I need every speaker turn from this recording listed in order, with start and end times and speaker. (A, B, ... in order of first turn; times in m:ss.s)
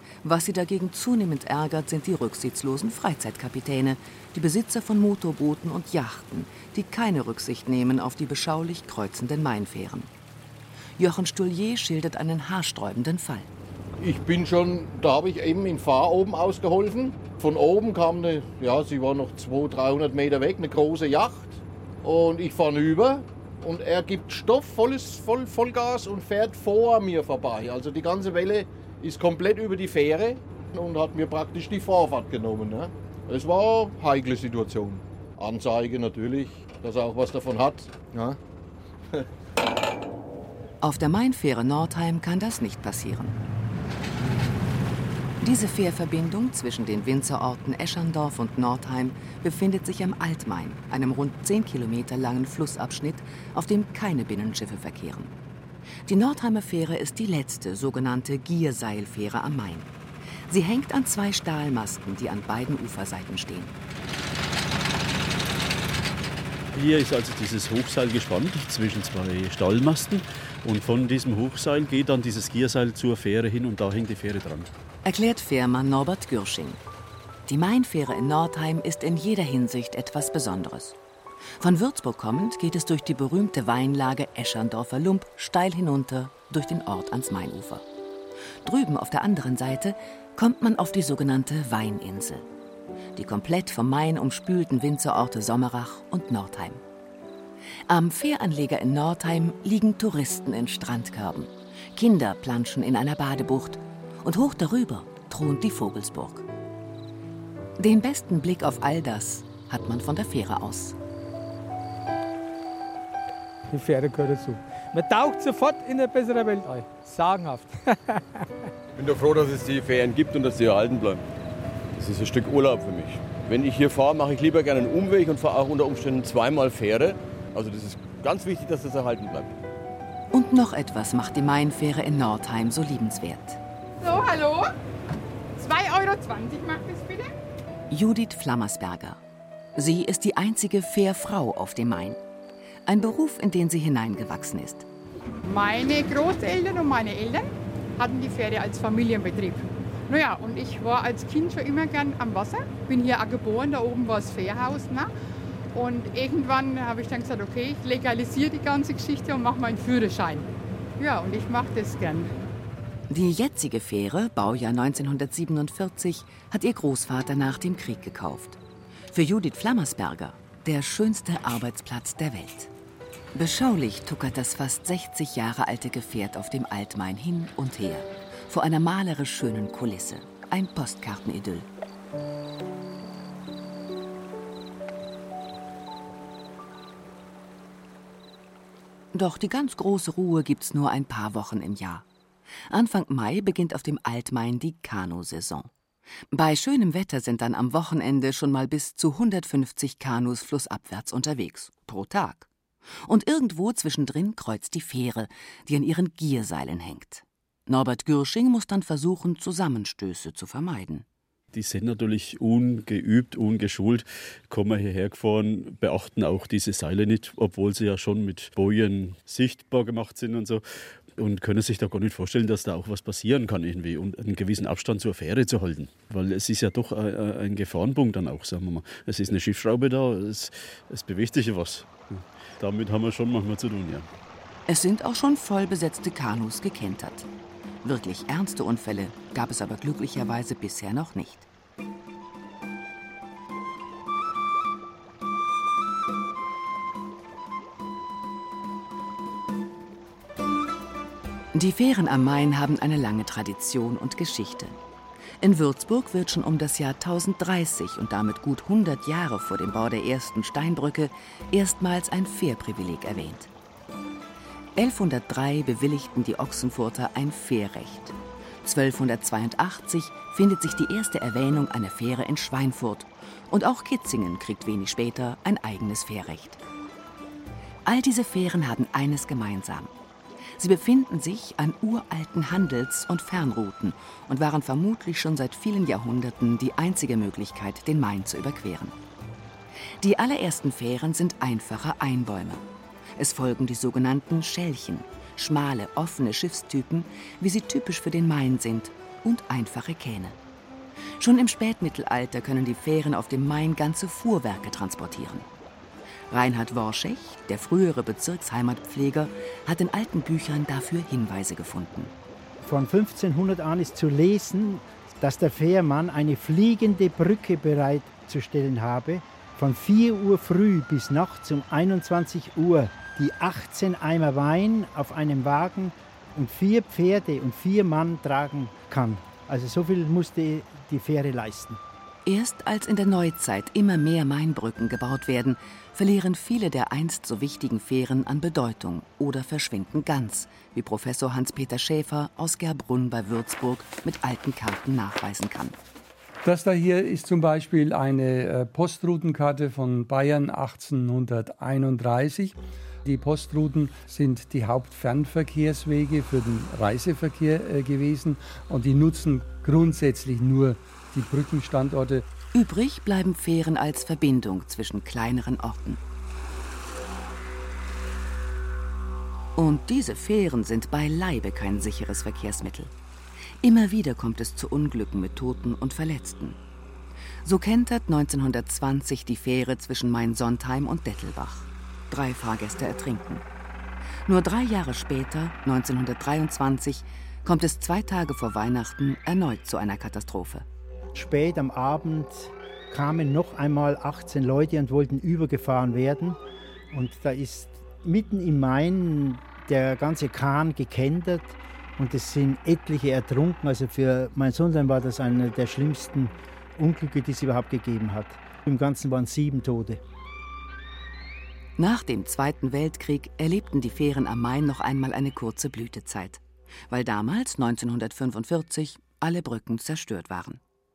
0:00.2-0:10.1 A
0:11.0-0:13.5 A
0:14.0-0:38.4 B
0:40.8-0:43.4 A
0:45.4-0:55.3 A
0:56.1-0:59.9 A
1:00.5-1:03.7 A
1:06.7-1:14.7 C
1:15.0-1:16.8 A
1:17.5-1:21.0 A
1:21.6-1:27.8 A
1:28.6-1:32.4 A
1:33.1-1:36.8 A
1:37.9-1:46.4 A
1:47.8-1:51.0 A
1:53.7-1:57.8 D
1:59.0-2:01.2 E
2:02.0-2:09.5 E
2:10.3-2:13.6 A
2:14.0-2:14.7 F
2:15.6-2:17.3 F
2:17.9-2:19.2 A
2:19.8-2:22.2 A
2:22.8-2:24.8 A
2:25.4-2:35.1 F
2:35.7-2:40.5 F
2:41.0-2:42.3 F
2:43.1-2:48.6 A
2:49.1-2:52.7 A
2:53.3-3:01.6 A
3:09.1-3:12.0 A
3:12.7-3:15.7 A
3:16.3-3:22.5 A
3:23.0-3:31.0 A
3:31.5-3:40.6 C
3:41.2-3:54.1 C
3:54.7-3:57.3 A
3:57.8-4:01.5 A
4:11.5-4:14.8 A
4:15.4-4:23.5 A
4:24.8-4:36.6 A
4:37.8-4:39.9 A
4:40.6-4:49.0 A
4:50.0-4:52.6 A
4:53.2-5:00.4 A
5:01.2-5:05.5 A
5:06.3-5:12.1 A
5:12.6-5:31.8 G
5:32.2-5:45.8 A
5:46.4-6:02.3 H
6:02.5-6:06.0 A
6:09.6-6:12.9 A
6:13.6-6:16.6 A
6:17.4-6:23.4 A
6:24.3-6:30.6 A
6:31.1-6:36.4 G
6:36.9-6:50.0 G
6:51.8-7:00.6 A